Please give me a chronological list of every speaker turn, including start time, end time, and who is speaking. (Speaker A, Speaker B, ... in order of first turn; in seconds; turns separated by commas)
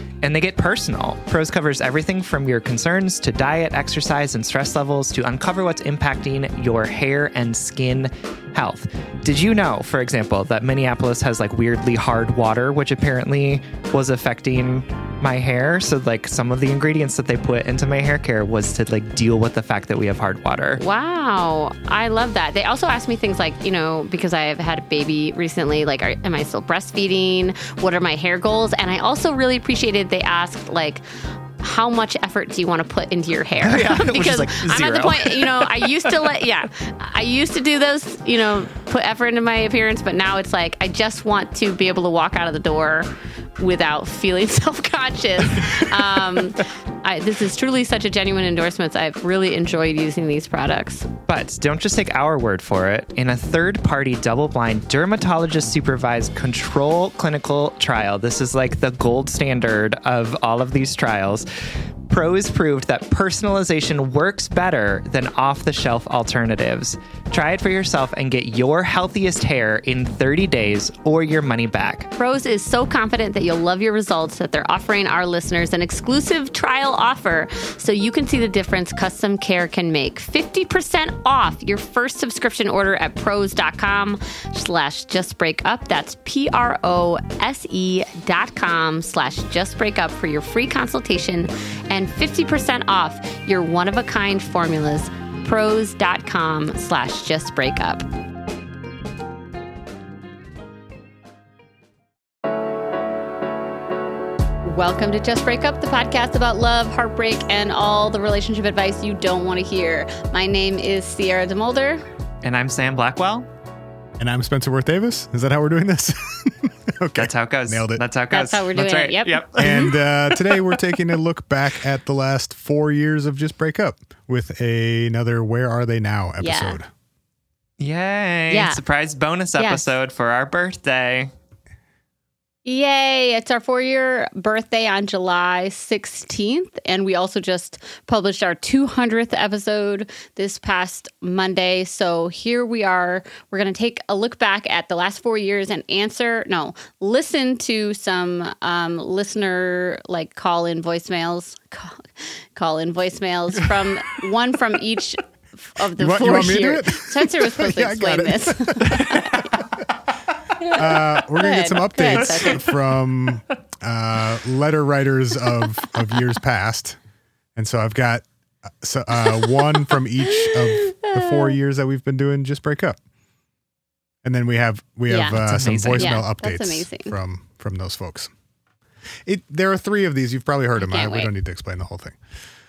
Speaker A: 0.2-20.8, Speaker B: 20.8-31.0, Speaker B: 31.6-51.1, Speaker A: 33.6-36.2, Speaker A: 51.3-61.5, Speaker A: 62.1-72.1, Speaker B: 72.2-98.1, Speaker B: 104.6-112.0, Speaker A: 112.4-113.5, Speaker C: 114.2-118.0, Speaker A: 117.2-120.8, Speaker B: 118.3-119.9, Speaker C: 119.6-126.9, Speaker B: 126.4-126.8, Speaker A: 127.8-131.3, Speaker B: 128.5-128.8, Speaker B: 129.6-129.8, Speaker B: 132.7-159.2, Speaker C: 156.0-159.6, Speaker A: 159.1-159.4, Speaker C: 160.7-167.0, Speaker B: 161.2-162.6, Speaker C: 167.6-168.3, Speaker C: 168.8-173.0, Speaker B: 170.2-171.5, Speaker C: 174.2-178.3, Speaker B: 175.1-175.4, Speaker A: 175.5-176.3, Speaker B: 176.0-177.2, Speaker C: 179.3-182.2, Speaker B: 180.8-181.3